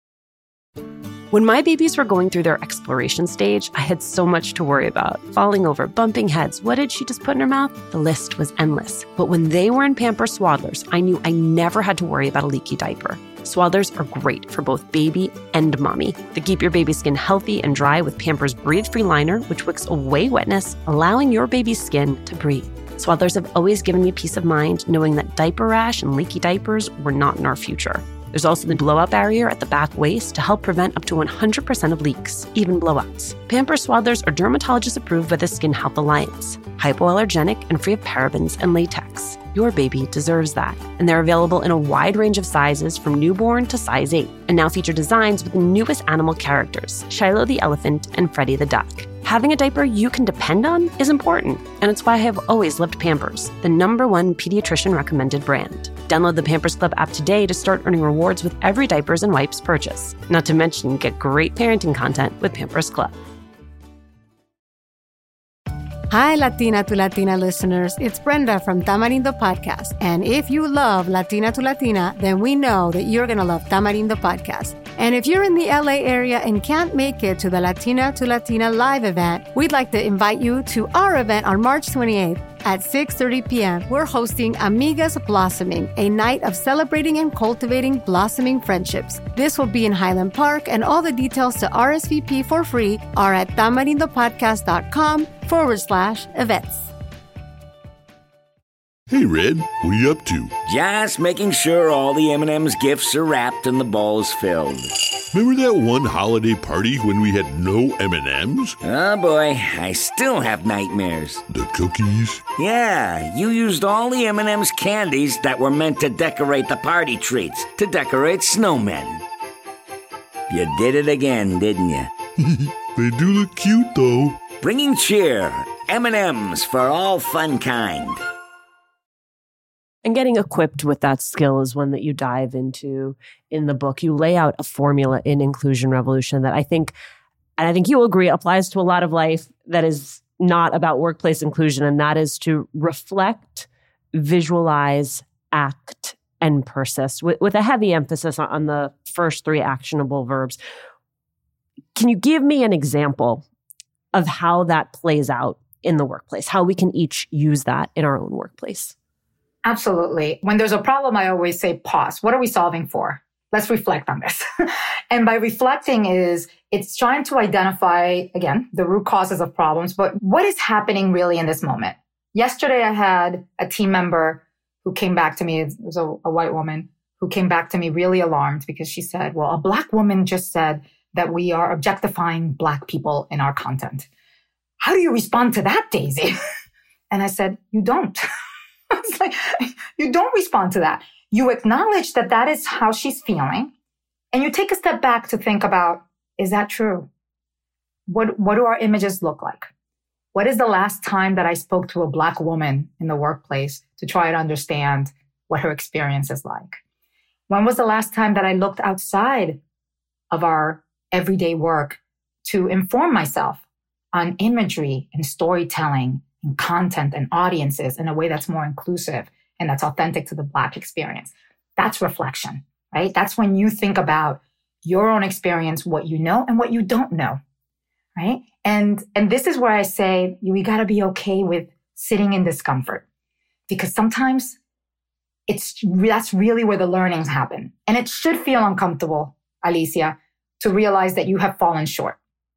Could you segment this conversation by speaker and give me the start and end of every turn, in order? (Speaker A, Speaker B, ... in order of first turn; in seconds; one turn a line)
Speaker A: 1.3-63.2
Speaker B: 66.1-96.9
Speaker C: 99.1-100.5
Speaker D: 100.7-104.9
Speaker C: 105.3-108.8
Speaker D: 108.8-111.4
Speaker C: 111.5-112.4
Speaker D: 112.6-119.2
Speaker D: 120.5-122.1
Speaker C: 122.4-124.4
Speaker D: 124.6-128.2
Speaker A: 130.1-136.9
Speaker A: 137.6-150.6
Speaker A: 151.9-153.4
Speaker A: 154.1-158.9
Speaker E: 159.6-164.4
Speaker E: 165.1-184.1
Speaker E: 184.8-186.3
Speaker E: 187.1-188.2
Speaker E: 188.9-193.7
Speaker E: 194.3-197.1
Speaker E: 198.1-199.7
Speaker E: 200.3-206.8
Speaker E: 207.5-209.6
Speaker E: 210.3-213.6
Speaker E: 214.1-227.4
Speaker E: 228.2-233.0
Speaker E: 233.7-234.6
Speaker E: 235.5-242.2